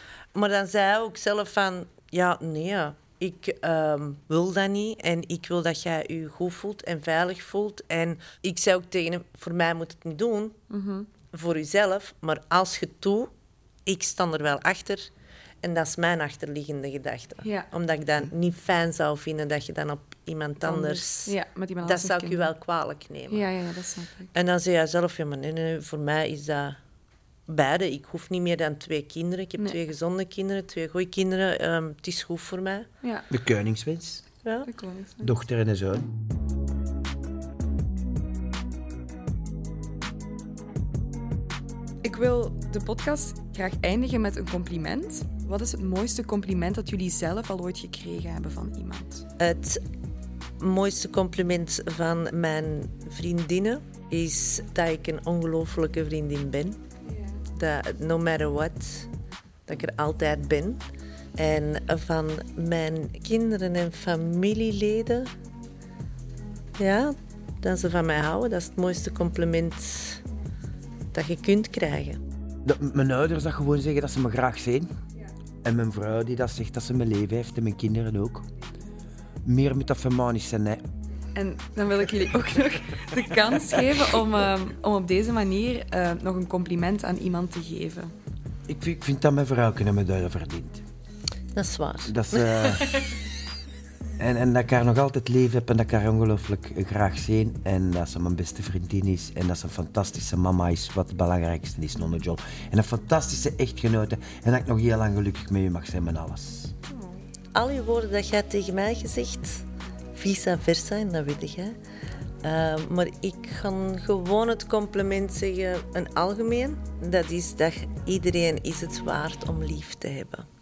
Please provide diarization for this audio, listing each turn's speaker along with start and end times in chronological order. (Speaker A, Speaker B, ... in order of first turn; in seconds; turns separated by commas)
Speaker A: 0.3-10.6, Speaker B: 10.7-11.1, Speaker A: 11.3-13.3, Speaker A: 13.9-15.1, Speaker A: 15.6-23.5, Speaker B: 17.4-17.7, Speaker B: 20.6-22.5, Speaker B: 23.3-24.3, Speaker A: 24.3-26.8, Speaker A: 27.5-32.9, Speaker B: 33.0-33.3, Speaker C: 33.3-34.2, Speaker B: 34.7-35.3, Speaker C: 35.2-36.1, Speaker B: 42.0-49.3, Speaker A: 49.4-49.8, Speaker A: 50.6-56.8, Speaker B: 57.1-57.4, Speaker A: 57.5-59.1, Speaker A: 59.7-60.8, Speaker A: 61.4-65.3, Speaker A: 66.8-70.2, Speaker A: 71.1-72.2, Speaker C: 72.7-74.9, Speaker C: 75.6-78.5, Speaker C: 79.5-80.8, Speaker B: 81.3-88.1, Speaker C: 88.7-90.8, Speaker A: 91.5-92.2, Speaker C: 92.0-93.1, Speaker B: 92.7-93.1, Speaker C: 94.2-106.7, Speaker A: 107.5-109.6, Speaker A: 110.2-111.8, Speaker A: 112.4-120.5